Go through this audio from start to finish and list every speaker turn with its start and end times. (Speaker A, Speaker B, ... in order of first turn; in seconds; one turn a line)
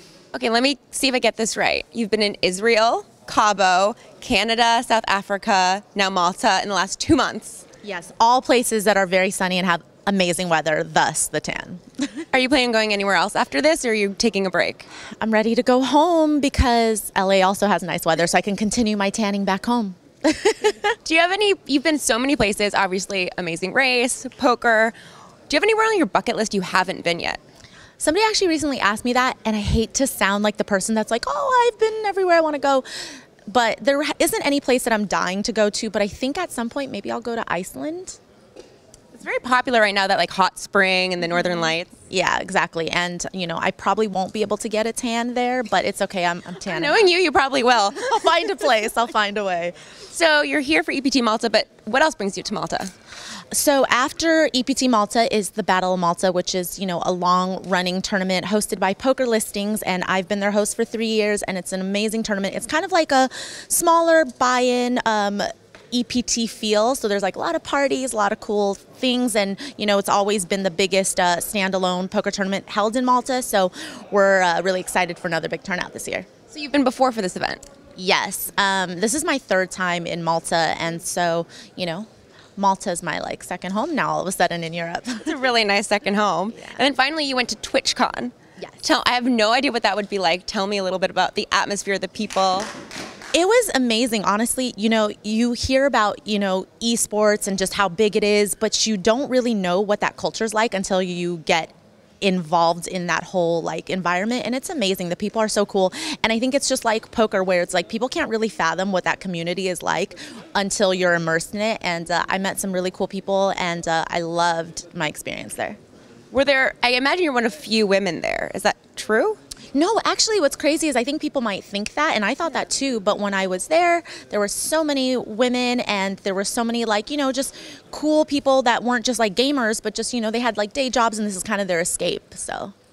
Speaker A: 0.3-7.7
Speaker B: 7.8-11.8
Speaker A: 12.3-14.9
Speaker B: 15.2-20.9
Speaker A: 21.0-24.9
Speaker A: 25.5-27.4
Speaker B: 28.0-32.9
Speaker B: 33.5-38.2
Speaker A: 39.1-41.9
Speaker B: 42.1-47.0
Speaker A: 46.6-48.7
Speaker B: 47.9-49.7
Speaker A: 50.1-52.9
Speaker B: 53.5-76.3
Speaker A: 76.5-77.6
Speaker B: 78.0-85.3
Speaker A: 85.2-92.7
Speaker B: 93.3-115.8
Speaker A: 116.3-119.4
Speaker B: 119.7-132.7